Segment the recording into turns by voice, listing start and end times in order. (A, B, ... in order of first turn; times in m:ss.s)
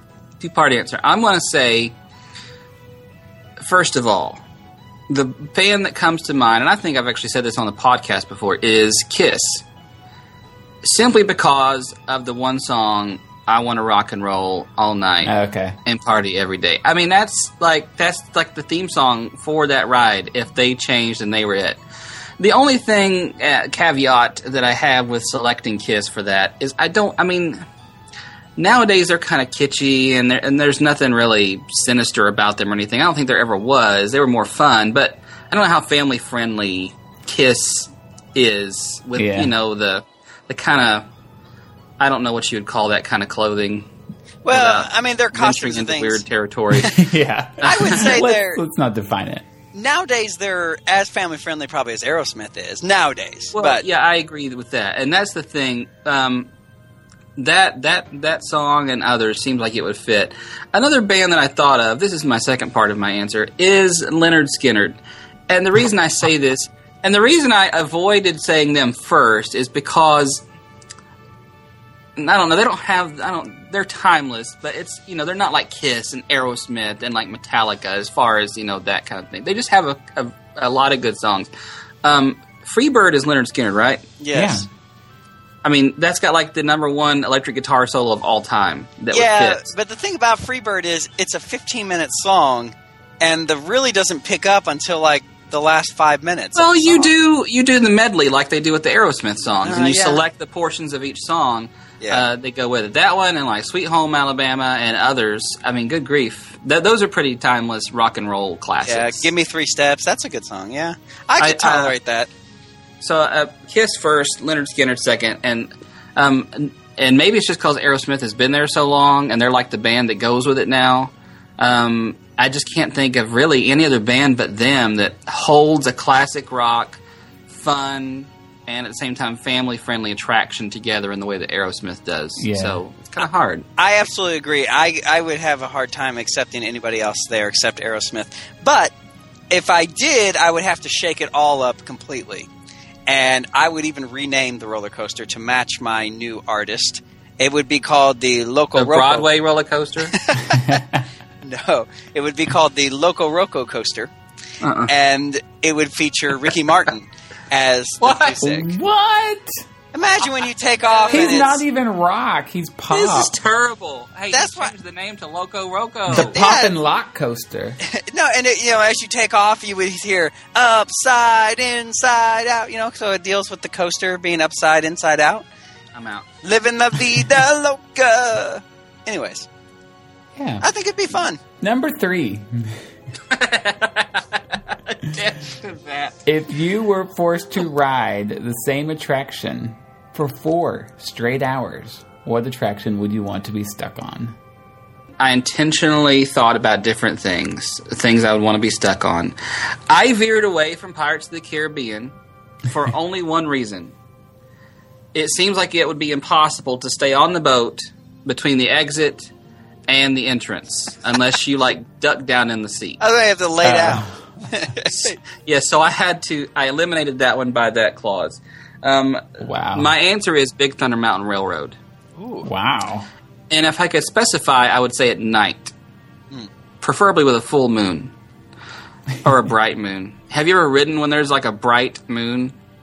0:00.4-0:02.0 A
0:03.6-0:04.4 A
0:05.1-0:09.6 A
0:10.8-0:15.3 A
0:15.2-0:15.8 B
0:15.8-0:21.8 A
0:22.4-0:27.6 A
0:28.6-0:41.1 A
0:39.2-0:39.5 B
0:42.0-0:43.9 A
0:44.4-0:46.2 C
0:44.5-0:47.0 A
0:46.8-0:49.4 B
0:47.6-0:48.6 C
0:47.8-0:48.2 A
0:49.7-0:53.8 C
0:53.5-0:56.5 A
0:57.4-1:10.4 A
1:12.2-1:21.5 A
1:22.0-1:24.1 A
1:24.2-1:24.6 C
1:24.3-1:24.7 B
1:25.6-1:29.7 A
1:29.1-1:37.1 C
1:36.6-1:49.3 A
1:39.6-1:40.2 C
1:42.0-1:42.3 C
1:48.8-1:52.3 C
1:51.4-1:52.0 A
1:53.0-2:13.7 A
2:12.4-2:12.8 B
2:13.8-2:18.9 C
2:19.5-2:22.5 C
2:23.1-2:29.3 C
2:28.8-2:30.2 A
2:30.1-2:30.8 C
2:30.5-2:31.0 B
2:31.4-2:34.1 C
2:34.6-2:34.9 A
2:34.9-2:38.7 C
2:38.0-2:38.4 A
2:38.4-2:39.6 B
2:39.9-2:41.6 C
2:41.0-2:41.5 A
2:41.1-2:43.3 B
2:42.9-2:46.4 A
2:44.3-2:44.7 C
2:46.1-2:47.8 B
2:46.2-2:46.7 C
2:47.8-2:55.4 C
2:55.9-2:56.3 A
2:56.4-2:59.5 C
3:00.4-3:00.6 B
3:00.6-3:01.4 C
3:01.6-3:02.8 B
3:03.3-3:06.2 A
3:06.3-3:14.4 B
3:15.2-3:19.4 A
3:19.9-3:23.9 A
3:25.1-3:29.3 A
3:29.9-3:33.0 A
3:33.0-3:35.2 C
3:33.6-3:34.5 B
3:34.9-3:41.8 A
3:39.4-3:39.9 B
3:42.2-3:42.5 C
3:42.4-3:43.1 B
3:43.5-3:45.7 A
3:46.8-3:48.1 A
3:49.2-3:52.6 A